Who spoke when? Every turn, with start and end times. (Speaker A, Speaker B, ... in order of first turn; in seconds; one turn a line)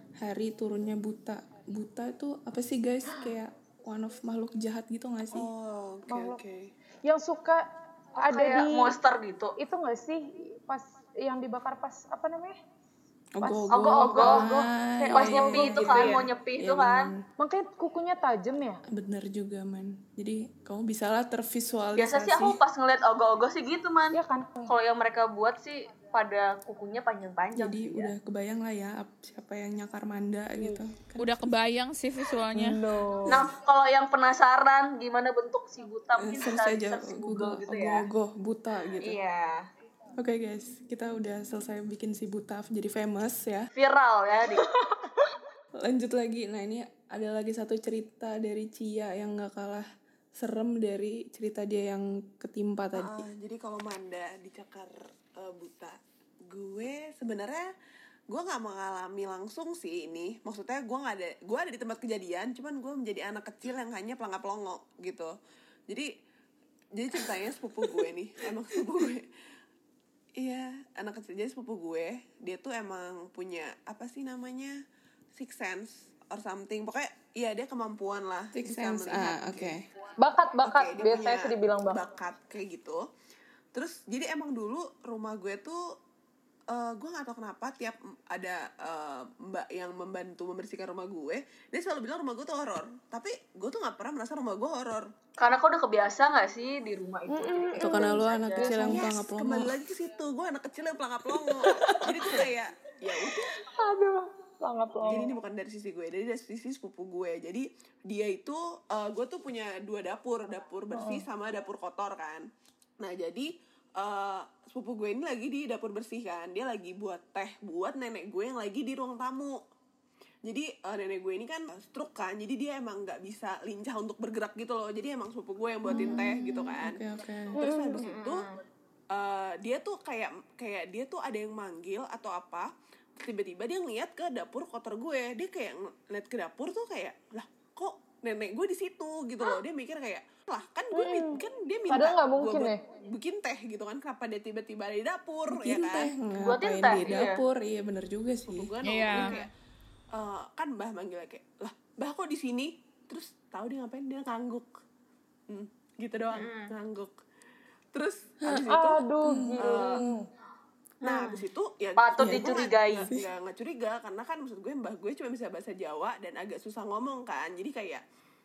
Speaker A: 0.2-5.5
Speaker B: 5.3-6.7
Speaker C: 6.1-6.4
Speaker C: 7.0-7.6
Speaker C: 8.2-8.9
Speaker D: 8.3-9.5
Speaker C: 9.6-12.6
Speaker A: 13.4-17.2
Speaker C: 13.4-16.2
Speaker D: 13.7-14.5
Speaker D: 15.1-17.1
Speaker C: 17.4-18.8
Speaker A: 18.9-22.6
Speaker D: 22.0-28.1
Speaker C: 24.1-24.7
Speaker A: 27.6-31.5
Speaker E: 31.2-32.8
Speaker C: 32.5-33.5
Speaker D: 33.3-38.0
Speaker A: 36.2-39.2
Speaker D: 39.0-39.5
Speaker A: 40.2-43.6
Speaker D: 43.7-44.6
Speaker C: 44.9-45.4
Speaker A: 45.8-49.8
Speaker A: 50.4-53.2
Speaker B: 53.0-57.7
Speaker B: 58.3-65.3
Speaker B: 67.0-69.2
Speaker B: 70.4-74.7
Speaker B: 75.3-79.8
Speaker A: 78.5-79.8
Speaker C: 80.2-82.0
Speaker B: 80.6-83.0
Speaker B: 83.7-85.8
Speaker B: 86.7-95.0
Speaker D: 95.4-98.8
Speaker C: 97.3-99.0
Speaker A: 97.8-99.7
Speaker B: 98.8-103.5
Speaker C: 103.2-105.3
Speaker B: 105.0-112.5
Speaker C: 110.9-111.2
Speaker B: 113.0-119.6
Speaker B: 120.5-127.0
Speaker A: 125.9-127.5
Speaker B: 127.5-128.4
Speaker C: 127.5-128.1
Speaker D: 128.0-128.6
Speaker B: 129.1-146.1
Speaker C: 140.9-142.8
Speaker A: 145.5-148.7
Speaker D: 146.4-147.4
Speaker B: 148.5-149.5
Speaker E: 148.8-149.3
Speaker D: 149.1-149.4
Speaker B: 150.1-154.7
Speaker B: 155.5-157.1
Speaker D: 156.3-156.7
Speaker B: 157.9-159.0
Speaker A: 158.4-160.1
Speaker C: 158.7-160.2
Speaker B: 159.6-160.0
Speaker D: 161.0-161.4
Speaker B: 161.0-168.0
Speaker D: 162.0-163.1
Speaker A: 162.2-163.2